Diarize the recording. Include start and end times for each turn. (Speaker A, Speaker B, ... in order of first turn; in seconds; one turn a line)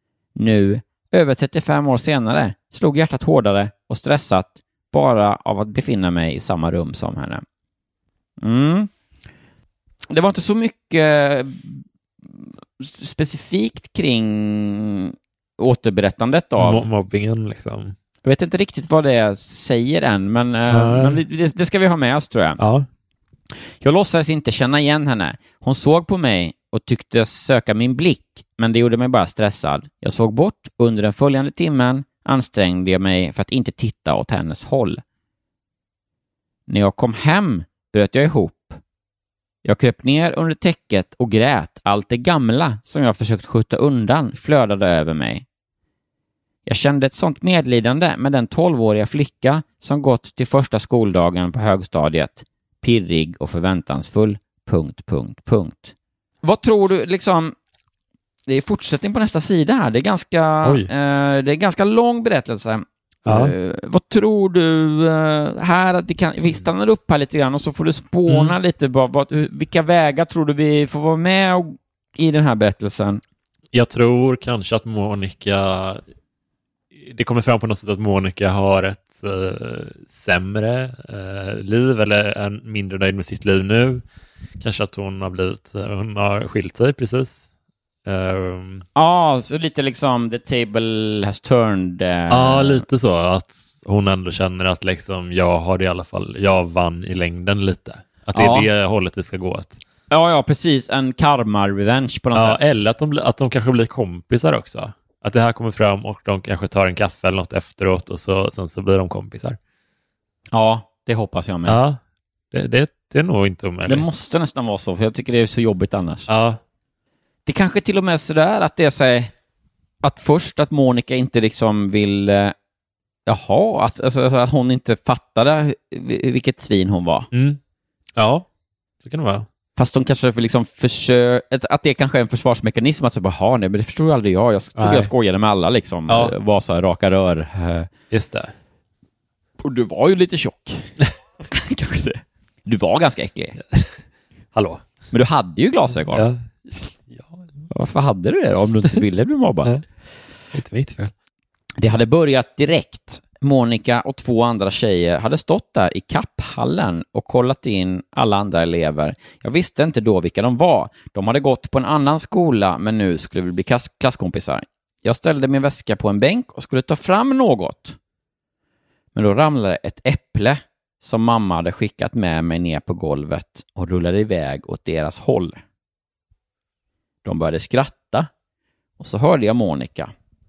Speaker A: 0.4-7.4
Speaker A: 8.4-8.9
Speaker A: 10.1-16.8
Speaker B: 16.6-17.9
Speaker A: 18.2-22.6
Speaker B: 20.7-21.2
Speaker B: 22.6-22.9
Speaker A: 23.8-35.0
Speaker A: 36.7-38.8
Speaker A: 39.6-45.4
Speaker A: 46.7-57.5
Speaker A: 58.5-73.2
Speaker B: 60.6-60.9
Speaker B: 63.3-63.5
Speaker B: 68.3-68.5
Speaker B: 73.7-76.0
Speaker B: 77.0-84.0
Speaker B: 84.6-87.5
Speaker B: 88.0-88.8
Speaker A: 89.0-92.8
Speaker B: 92.3-99.8
Speaker A: 98.3-98.7
Speaker A: 100.1-102.6
Speaker B: 102.3-109.6
Speaker A: 110.5-111.8
Speaker B: 111.7-112.0
Speaker B: 112.5-114.1
Speaker A: 113.9-116.3
Speaker B: 116.3-116.6
Speaker A: 117.5-119.3
Speaker A: 120.0-122.5
Speaker A: 123.3-127.3
Speaker B: 127.3-127.6
Speaker B: 128.2-128.4
Speaker B: 129.0-129.4
Speaker A: 129.8-137.9
Speaker B: 134.8-135.1
Speaker B: 136.1-136.3
Speaker B: 138.1-138.5
Speaker A: 139.6-140.9
Speaker A: 141.5-143.6
Speaker B: 144.6-144.8
Speaker A: 145.1-146.3
Speaker B: 146.1-147.7
Speaker A: 147.7-149.7
Speaker B: 150.5-151.1
Speaker A: 151.8-168.0
Speaker A: 169.1-175.6
Speaker A: 177.2-178.3
Speaker A: 179.0-180.1